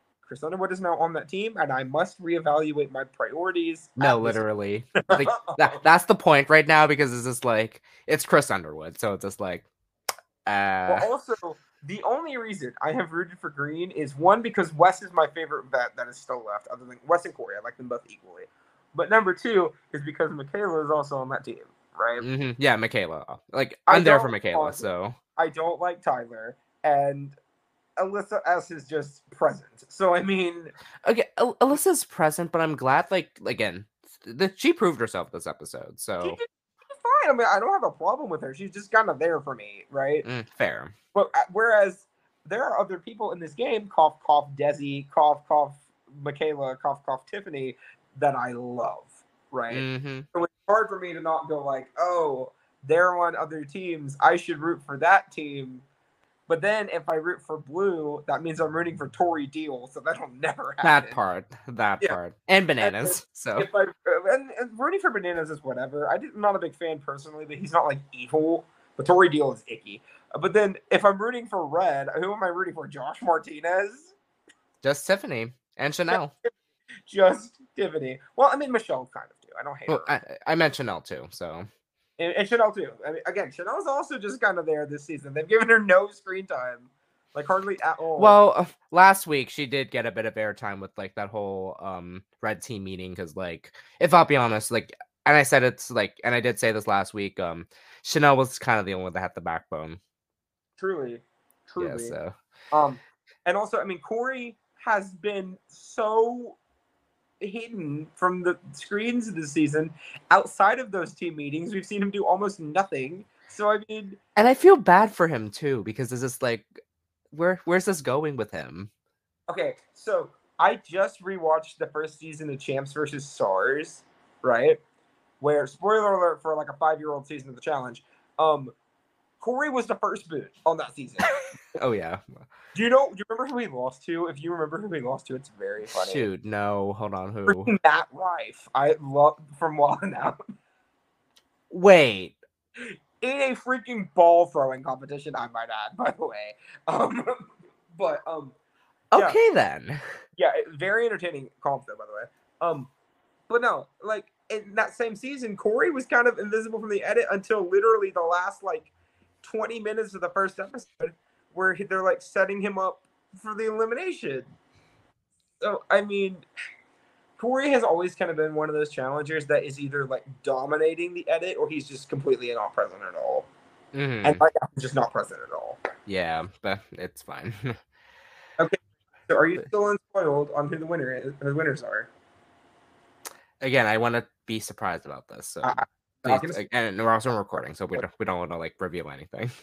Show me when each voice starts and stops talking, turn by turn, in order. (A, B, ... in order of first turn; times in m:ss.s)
0:00.2-0:04.4 A
0:04.0-0:09.7 B
0:05.0-0:05.8 A
0:10.5-0:11.1 B
0:10.9-0:22.2 A
0:22.2-0:25.2 B
0:23.9-0:27.4 A
0:28.0-0:30.7 A
0:31.0-0:36.4 B
0:36.2-0:40.3 A
0:40.2-0:40.9 B
0:41.1-0:55.8 A
0:49.7-0:50.3 B
0:56.5-1:01.2 A
1:00.8-1:03.7 B
1:02.8-1:14.1 A
1:14.8-1:16.3 B
1:16.1-1:16.6 A
1:17.1-1:20.1 A
1:19.9-1:21.7 B
1:22.2-1:28.4 A
1:28.2-1:40.0 B
1:40.8-1:42.2 A
1:41.8-1:42.3 B
1:42.7-1:46.6 A
1:47.4-1:54.2 A
1:54.4-1:56.8 B
1:57.3-1:58.9 B
1:59.5-2:04.8 A
2:05.4-2:08.7 A
2:09.4-2:11.3 A
2:11.8-2:12.4 B
2:12.7-2:16.3 A
2:16.0-2:17.7 B
2:17.5-2:20.4 A
2:21.7-2:22.4 B
2:22.8-2:28.6 A
2:29.1-2:30.2 B
2:30.4-2:32.9 A
2:33.5-2:38.9 A
2:39.4-2:44.5 A
2:45.6-2:46.5 A
2:47.4-2:53.5 A
2:53.9-2:54.4 B
2:54.2-2:55.8 A
2:56.1-2:57.8 B
2:58.6-3:02.1 A
3:03.6-3:09.5 B
3:05.6-3:06.6 A